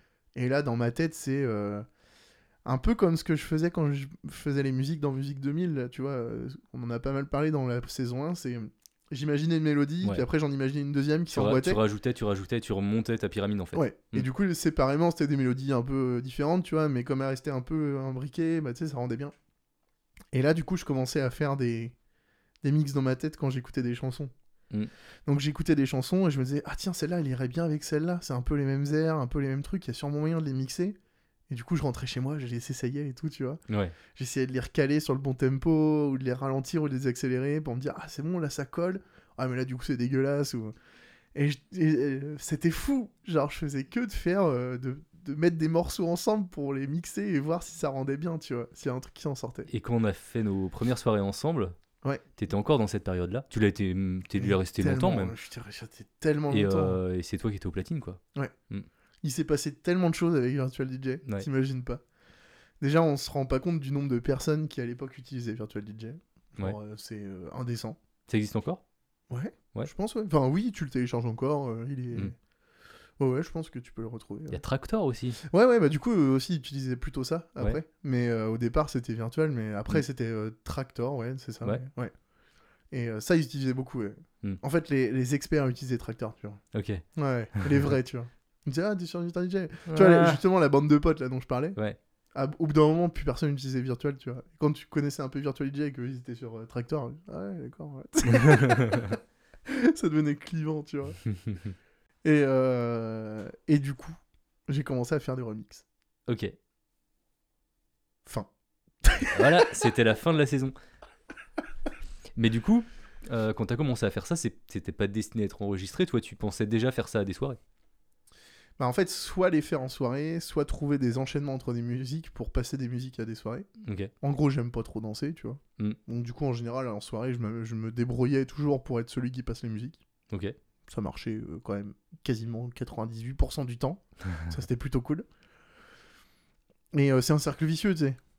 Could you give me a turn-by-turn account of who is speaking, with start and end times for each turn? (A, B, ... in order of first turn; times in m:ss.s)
0:00.3-0:01.8 A
0:02.6-0:11.8 A
0:11.3-0:14.3 B
0:13.7-0:19.3 A
0:20.3-0:21.9 A
0:22.6-0:24.3 A
0:25.2-0:31.0 A
0:31.5-0:40.7 A
0:33.7-0:33.9 B
0:41.3-0:49.7 A
0:49.7-0:51.7 B
0:52.4-0:55.3 B
0:54.4-0:57.0 A
0:56.5-0:58.9 B
0:59.2-1:02.0 A
1:02.8-1:08.0 A
1:08.3-1:08.8 B
1:09.3-1:12.3 A
1:13.2-1:14.6 A
1:14.5-1:15.4 B
1:15.4-1:22.1 A
1:22.9-1:26.6 A
1:26.7-1:27.0 B
1:27.2-1:31.8 A
1:27.6-1:27.9 B
1:29.9-1:30.4 B
1:32.3-1:41.2 A
1:38.2-1:39.2 B
1:41.2-1:41.7 B
1:42.2-1:45.8 A
1:46.3-1:46.5 B
1:49.0-1:49.7 A
1:49.3-1:50.7 B
1:52.4-1:57.6 B
1:58.8-2:03.7 A
2:03.8-2:04.1 B
2:04.2-2:10.0 A
2:10.3-2:10.6 B
2:10.9-2:15.2 A
2:16.9-2:18.2 A